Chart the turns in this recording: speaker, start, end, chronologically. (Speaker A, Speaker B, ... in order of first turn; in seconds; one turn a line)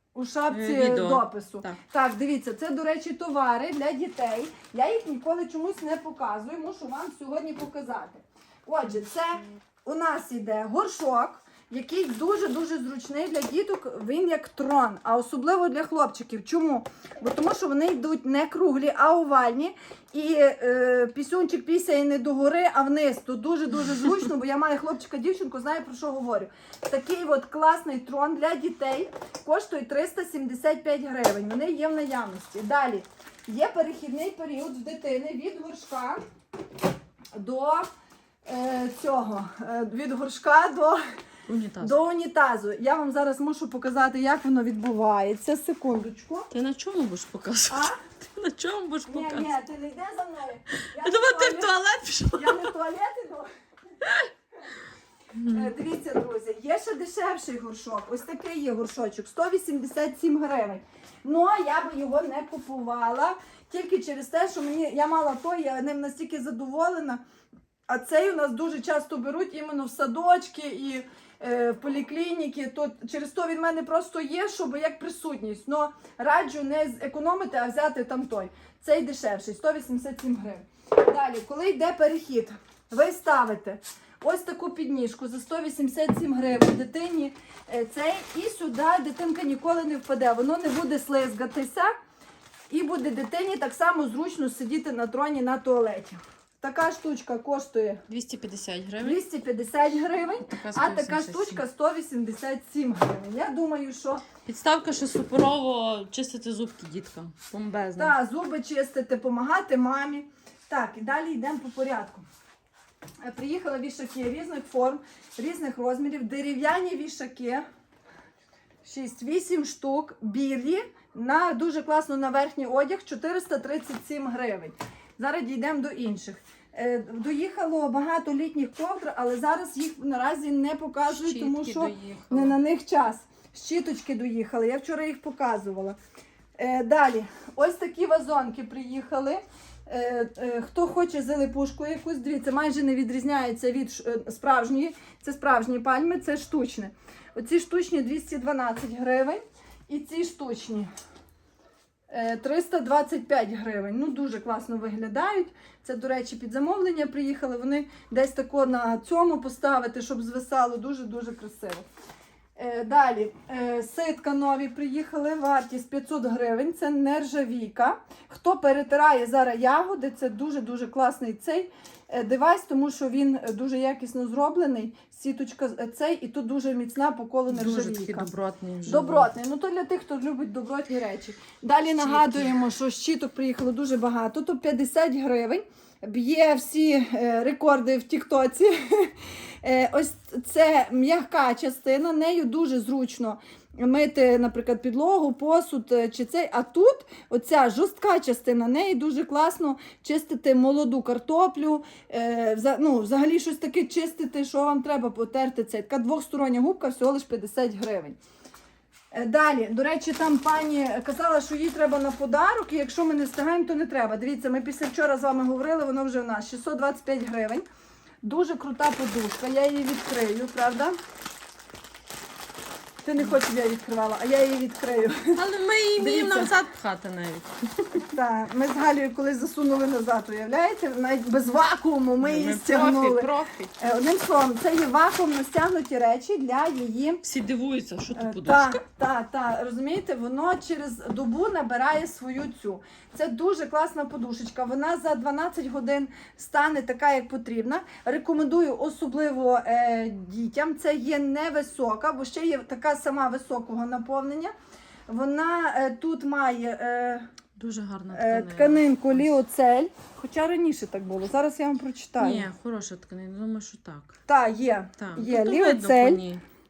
Speaker A: 0.1-36.2
Speaker B: 0.5-1.8
Speaker A: 37.3-37.9
Speaker A: 38.5-41.0
Speaker B: 41.5-41.9
Speaker A: 41.8-46.5
Speaker B: 46.5-49.5
Speaker A: 47.7-48.0
Speaker A: 49.1-51.7
Speaker B: 51.0-52.7
Speaker A: 52.3-53.5
Speaker B: 54.0-54.3
Speaker B: 55.3-55.7
Speaker A: 55.5-67.2
Speaker A: 67.9-91.9
Speaker A: 92.7-98.0
Speaker B: 98.1-99.2
Speaker A: 99.0-104.2
Speaker B: 100.4-101.6
Speaker B: 104.4-108.2
Speaker A: 108.0-112.2
Speaker A: 113.2-117.6
Speaker A: 118.8-136.0
Speaker B: 131.1-132.6
Speaker A: 136.6-150.9
Speaker A: 152.1-161.8
Speaker A: 162.6-178.3
Speaker B: 177.5-179.3
Speaker A: 178.8-208.2
Speaker B: 182.0-182.6
Speaker A: 209.1-217.6
Speaker A: 218.2-220.9
Speaker A: 223.0-225.4
Speaker B: 225.3-228.0
Speaker A: 226.0-226.5
Speaker A: 228.1-237.2
Speaker B: 232.2-233.7
Speaker B: 237.2-238.8
Speaker A: 238.1-254.5
Speaker A: 255.1-257.2
Speaker B: 257.6-259.3
Speaker A: 258.1-262.5
Speaker B: 262.2-264.1
Speaker A: 264.3-266.2
Speaker B: 265.0-266.4